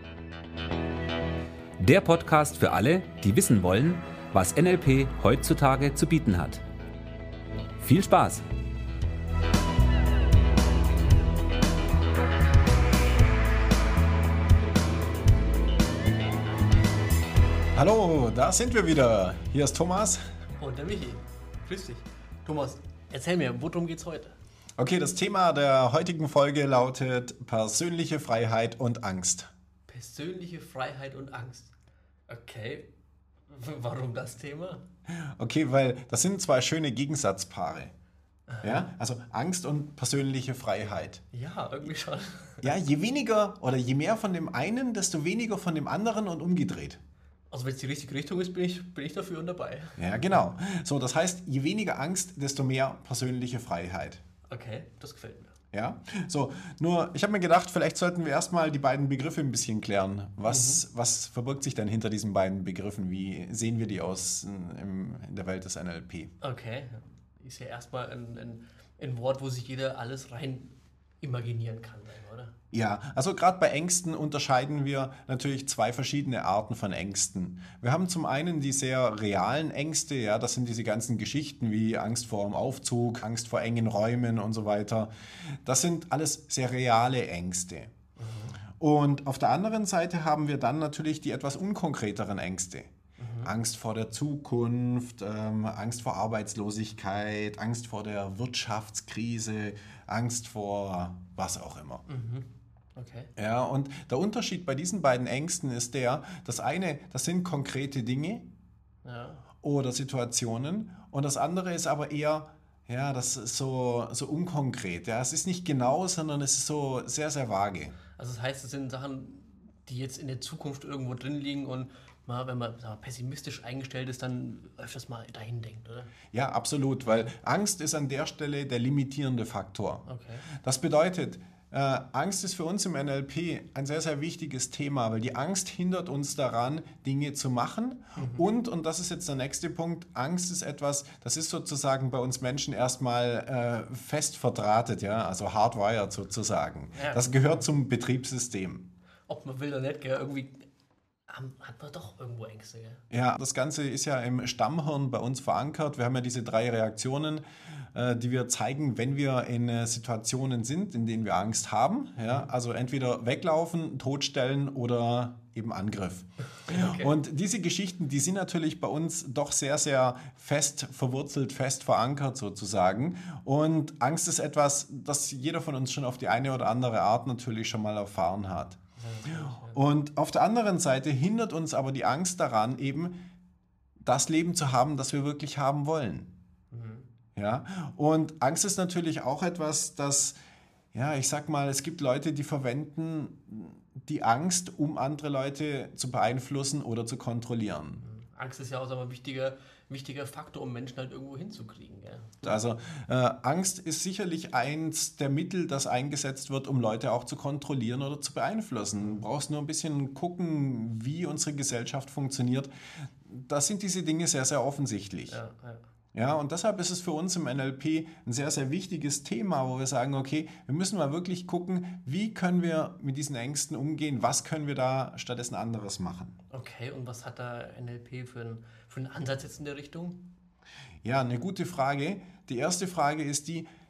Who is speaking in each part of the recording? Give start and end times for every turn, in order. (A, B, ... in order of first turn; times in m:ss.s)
0:01.8-0:06.6 A
0:07.8-0:08.4 A
0:17.7-0:20.2 B
0:20.6-0:24.4 C
0:24.8-0:29.5 B
0:29.9-0:31.7 C
0:32.3-0:32.9 C
0:33.5-0:34.8 C
0:35.1-0:37.9 B
0:38.5-0:38.9 C
0:38.6-0:41.2 B
0:41.3-0:42.7 C
0:42.6-0:47.0 B
0:47.5-0:50.5 C
0:50.0-0:54.2 B
0:54.5-0:55.5 C
0:55.7-1:06.3 B
1:00.4-1:00.8 C
1:06.4-1:12.5 C
1:12.7-1:27.9 B
1:28.2-1:28.6 C
1:28.8-1:32.9 B
1:33.2-1:33.5 C
1:33.4-1:42.0 B
1:42.1-1:43.3 C
1:43.4-1:48.5 B
1:49.0-1:49.4 C
1:49.6-1:57.9 B
1:58.2-2:06.1 C
2:06.3-2:28.9 B
2:10.0-2:10.5 C
2:18.2-2:18.4 C
2:26.9-2:27.7 C
2:29.3-2:30.6 C
2:31.3-2:33.0 C
2:33.1-3:03.2 B
2:46.7-2:47.1 C
2:59.0-2:59.8 C
3:04.0-3:06.3 B
3:06.7-3:07.1 C
3:07.4-3:10.4 B
3:10.9-3:18.0 B
3:18.0-3:22.4 C
3:22.4-3:32.7 B
3:33.2-3:35.4 B
3:35.3-3:35.8 C
3:36.1-3:46.4 B
3:46.5-3:50.3 C
3:51.0-3:53.7 B